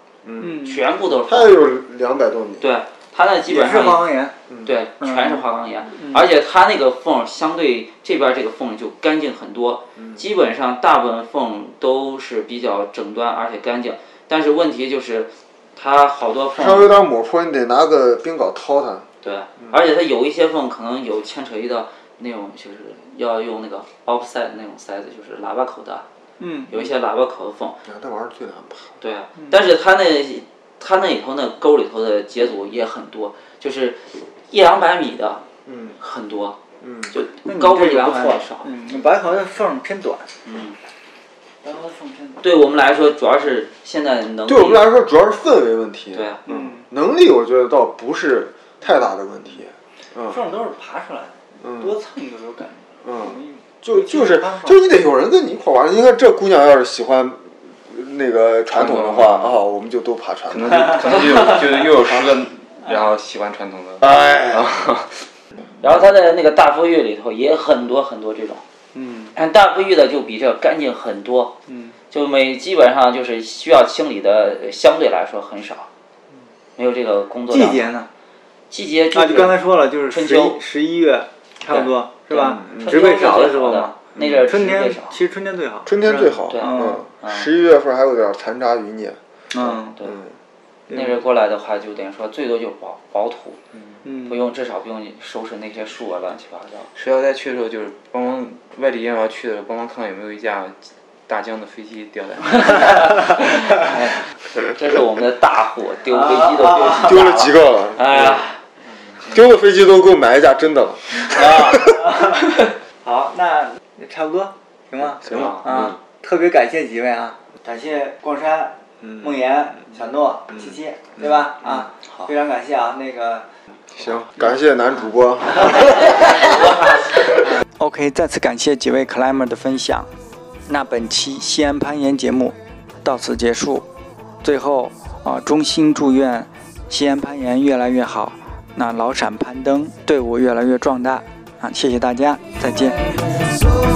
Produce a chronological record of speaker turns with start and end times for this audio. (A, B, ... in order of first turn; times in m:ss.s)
0:00.2-0:00.6 A
0:00.4-0:00.8 B
0:00.6-0:01.6 C
0:01.2-0:02.7 A
0:02.6-0:16.9 C
0:03.5-0:04.3 B
0:16.5-0:19.1 A
0:19.2-0:26.0 C
0:26.4-0:26.7 D
0:26.7-0:27.8 C
0:27.8-0:29.0 A
0:29.0-0:35.4 C
0:35.6-0:36.0 A
0:36.0-0:36.6 C
0:36.8-0:37.1 A
0:37.1-0:38.7 C
0:37.5-0:40.3 B
0:40.4-0:40.8 C
0:41.6-0:42.4 B
0:42.4-0:44.9 C
0:44.4-0:50.4 A
0:46.1-0:46.4 C
0:46.5-0:46.8 B
0:50.3-0:54.8 B
0:51.6-0:51.9 A
0:53.0-1:01.2 A
0:58.7-0:59.5 E
1:00.5-1:05.2 E
1:05.8-1:08.6 C
1:09.0-1:09.3 B
1:09.3-1:11.6 C
1:11.7-1:11.9 B
1:12.1-1:15.9 C
1:16.8-1:17.9 C
1:17.5-1:18.1 B
1:18.7-1:20.6 C
1:19.1-1:27.0 B
1:21.7-1:25.2 C
1:22.6-1:22.9 A
1:25.8-1:29.2 A
1:26.5-1:27.5 C
1:29.5-1:30.0 B
1:30.0-1:30.3 A
1:30.9-1:33.6 C
1:34.2-1:36.9 C
1:36.9-1:43.9 E
1:42.9-1:48.6 C
1:46.1-1:47.0 B
1:47.0-1:48.4 A
1:49.2-1:51.9 A
1:51.2-2:03.5 B
1:55.2-1:55.9 E
2:04.0-2:06.3 A
2:05.6-2:07.6 B
2:07.8-2:10.1 D
2:10.7-2:13.9 D
2:14.4-2:23.2 D